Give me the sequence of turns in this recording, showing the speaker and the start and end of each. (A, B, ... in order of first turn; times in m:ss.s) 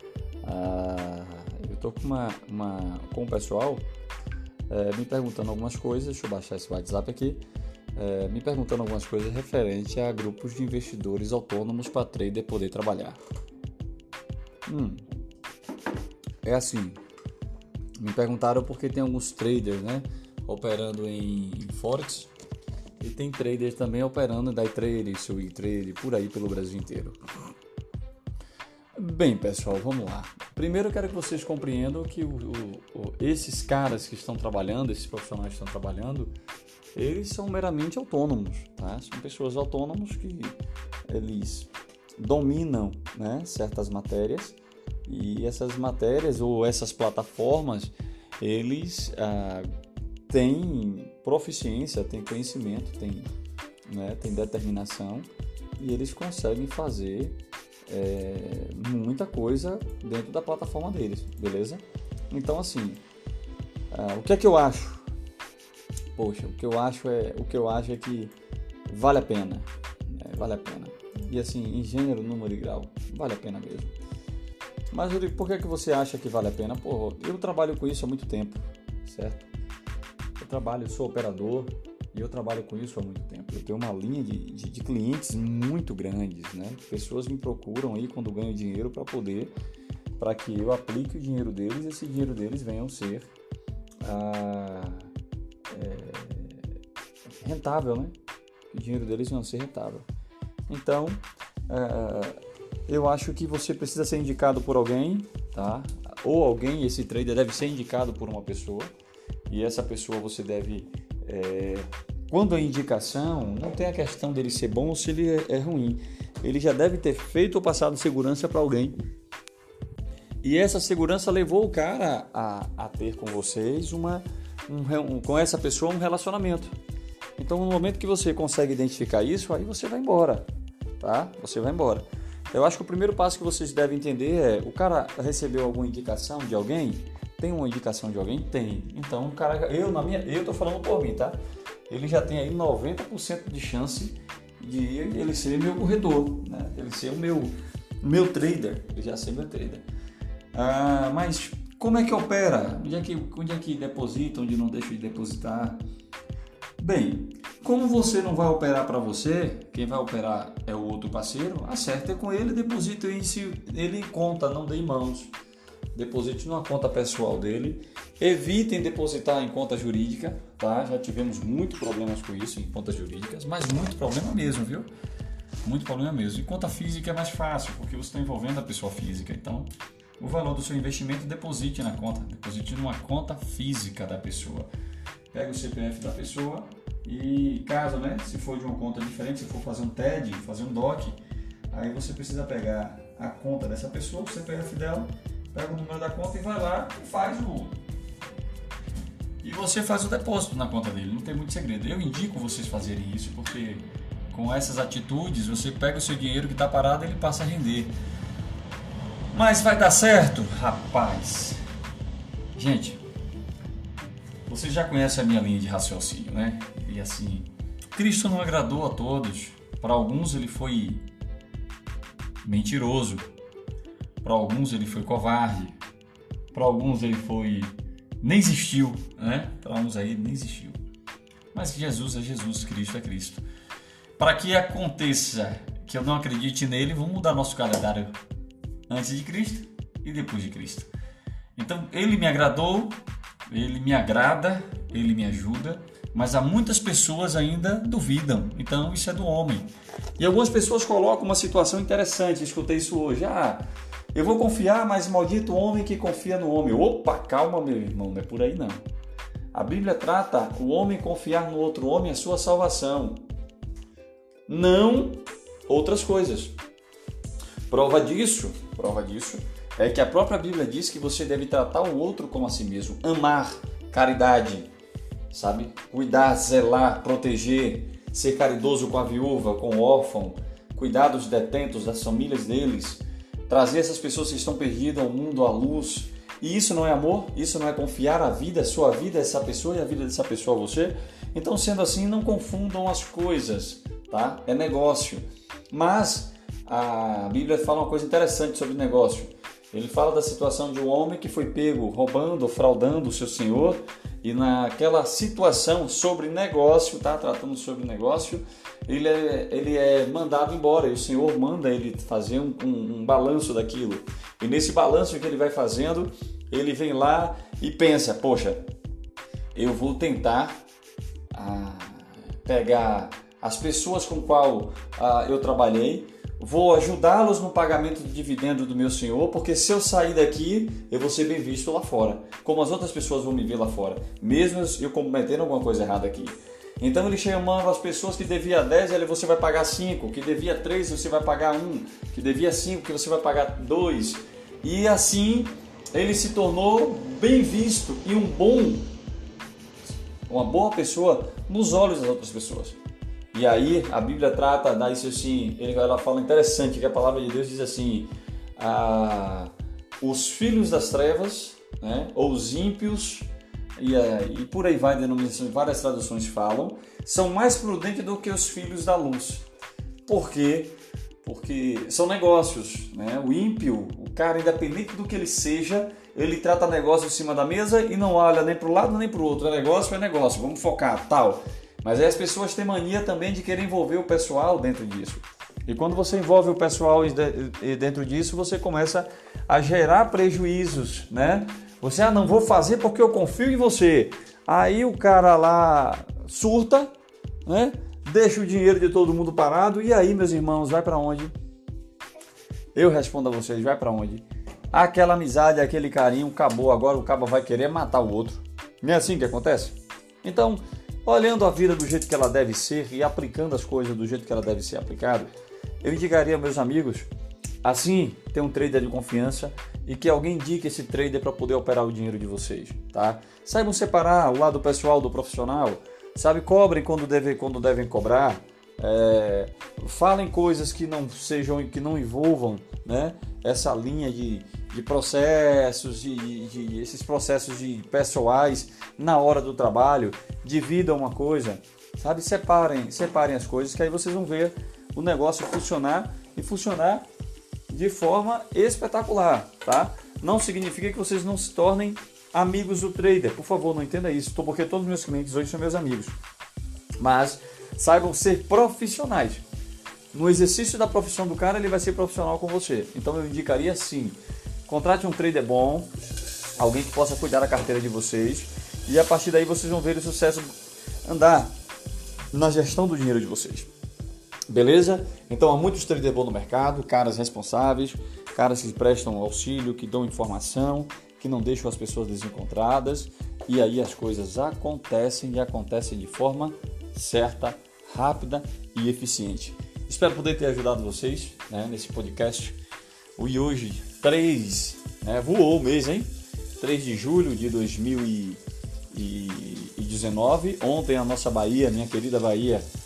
0:00.4-0:03.8 A
0:04.7-0:07.4 A
0:08.0-0:13.2 A
0:14.7-0:15.0 A
0:16.4-0:17.0 A
0:18.0-0:22.3 A
0:23.0-0:27.2 A
0:29.0-0:36.3 A
0:36.9-0:40.6 A
0:41.1-0:49.7 A
0:50.3-0:53.3 A
0:53.9-1:03.0 A
1:03.9-1:05.0 A
1:06.2-1:08.3 A
1:08.9-1:13.9 A
1:14.9-1:19.5 A
1:20.4-1:29.5 A
1:30.2-1:33.3 A
1:34.0-1:35.1 A
1:35.7-1:36.7 A
1:37.3-1:38.1 A
1:38.7-1:40.0 A
1:40.7-1:48.9 A
1:49.5-1:59.0 A
2:00.4-2:06.7 A
2:07.4-2:10.4 A
2:11.0-2:21.4 A
2:21.9-2:29.8 A
2:30.5-2:35.8 A
2:36.8-2:45.3 A
2:45.9-2:54.9 A
2:55.6-3:04.7 A
3:05.3-3:11.2 A
3:11.7-3:17.8 A
3:19.4-3:28.0 A
3:29.3-3:31.6 A
3:32.5-3:33.0 A
3:34.5-3:41.0 A
3:42.4-3:43.2 A
3:44.2-3:45.8 A
3:46.5-3:50.8 A
3:51.5-3:53.4 A
3:54.2-3:58.1 A
3:58.9-4:00.9 A
4:01.6-4:18.8 A
4:19.5-4:23.2 A
4:24.5-4:26.5 A
4:27.7-4:34.7 A
4:35.3-5:18.6 A
5:19.5-5:20.6 A
5:21.3-5:48.9 A
5:50.3-5:52.8 A
5:53.3-6:09.5 A
6:10.0-6:36.9 A
6:37.4-6:41.3 A
6:42.7-6:55.3 A
6:55.8-6:57.1 A
6:57.6-7:27.0 A
7:27.7-7:36.2 A
7:37.0-7:39.4 A
7:40.1-7:45.9 A
7:46.6-7:50.5 A
7:51.0-7:51.5 A
7:52.3-7:53.7 A
7:54.5-8:12.6 A
8:13.2-8:22.6 A